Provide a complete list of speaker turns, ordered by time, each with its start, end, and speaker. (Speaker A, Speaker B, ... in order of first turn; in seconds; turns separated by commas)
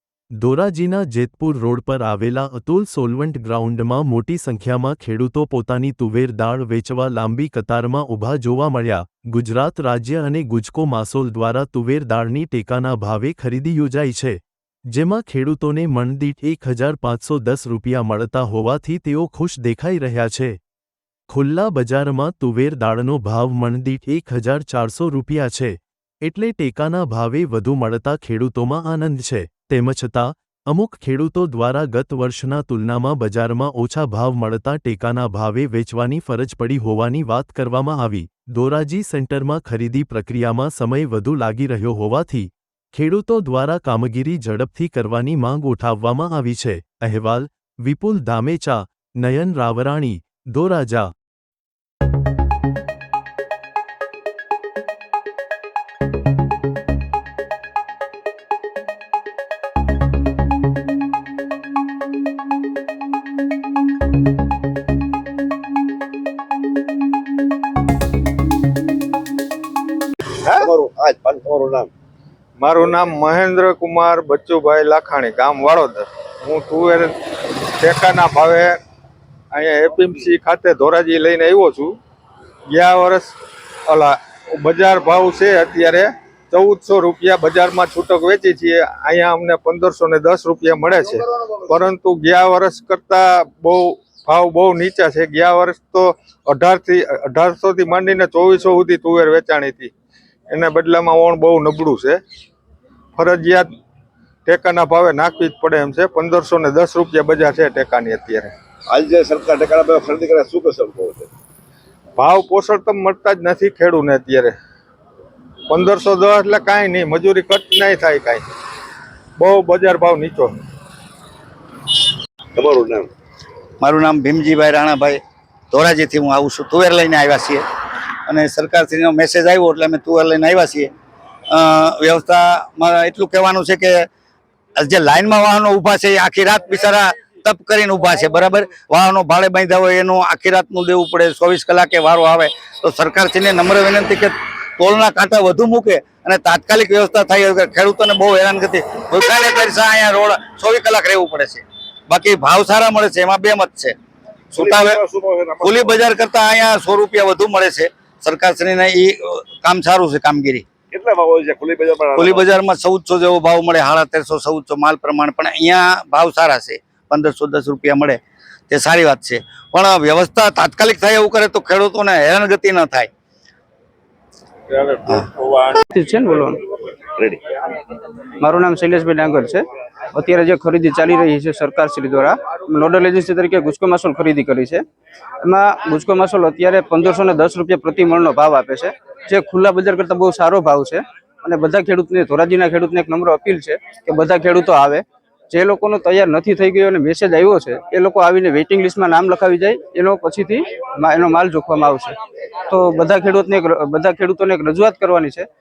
Speaker A: 0.4-14.4, Speaker A: 14.9-20.6, Speaker A: 21.3-51.1, Speaker B: 70.6-71.9, Speaker C: 72.6-77.1, Speaker C: 77.8-78.8, Speaker C: 79.5-82.0, Speaker C: 82.7-83.3, Speaker C: 83.9-99.9, Speaker C: 100.5-102.2, Speaker C: 103.2-103.7, Speaker C: 104.5-108.5, Speaker B: 108.9-111.3, Speaker C: 112.2-114.5, Speaker C: 115.7-118.4, Speaker C: 119.4-120.5, Speaker B: 122.5-123.1, Speaker D: 123.8-127.6, Speaker D: 128.3-130.9, Speaker D: 131.5-134.1, Speaker D: 134.8-154.0, Speaker D: 154.5-155.0, Speaker B: 154.5-156.0, Speaker D: 155.6-160.7, Speaker B: 160.9-162.5, Speaker D: 162.1-168.2, Speaker D: 168.7-173.1, Speaker D: 175.1-175.3, Speaker E: 175.8-176.6, Speaker E: 178.4-184.8, Speaker E: 185.4-202.2, Speaker E: 202.7-205.5